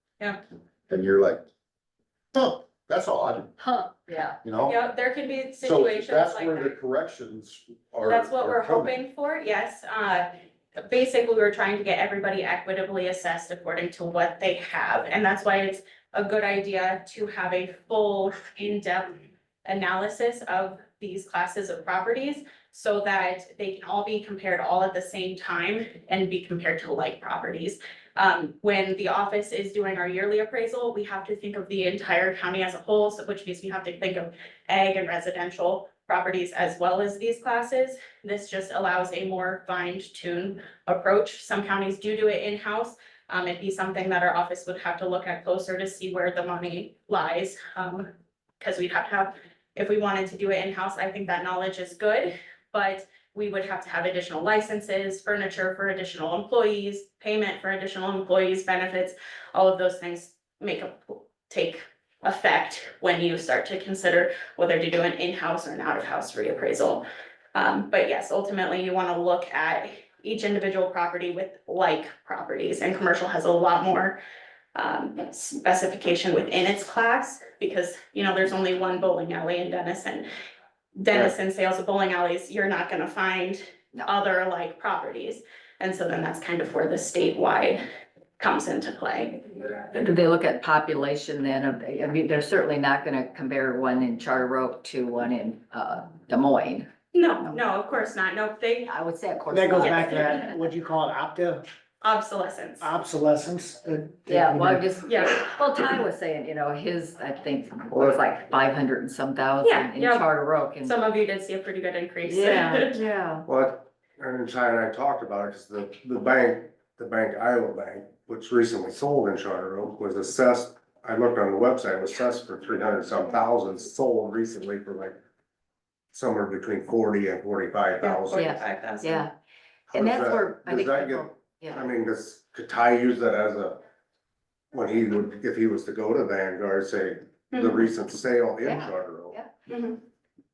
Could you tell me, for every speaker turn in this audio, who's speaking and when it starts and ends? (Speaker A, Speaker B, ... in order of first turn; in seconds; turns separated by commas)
Speaker A: 0.9-1.4, Speaker A: 2.3-3.5, Speaker B: 3.6-4.4, Speaker A: 4.4-4.8, Speaker C: 4.6-6.7, Speaker A: 5.6-8.9, Speaker C: 8.1-10.3, Speaker C: 10.8-48.1, Speaker C: 48.6-74.2, Speaker C: 74.7-80.3, Speaker C: 81.0-87.8, Speaker C: 88.4-89.5, Speaker B: 89.9-96.9, Speaker C: 97.1-98.9, Speaker B: 98.8-100.5, Speaker D: 99.5-101.6, Speaker C: 99.8-100.4, Speaker C: 102.0-102.9, Speaker D: 102.8-104.8, Speaker B: 104.3-110.9, Speaker C: 105.0-105.5, Speaker E: 107.9-108.2, Speaker C: 109.6-110.2, Speaker C: 110.8-113.0, Speaker B: 112.2-113.5, Speaker E: 113.5-125.2, Speaker E: 126.1-128.4, Speaker C: 128.0-129.2, Speaker B: 128.3-129.3, Speaker E: 129.9-133.8, Speaker B: 129.9-131.9, Speaker E: 134.7-139.4, Speaker C: 137.5-137.9, Speaker B: 138.6-139.5, Speaker C: 139.7-140.0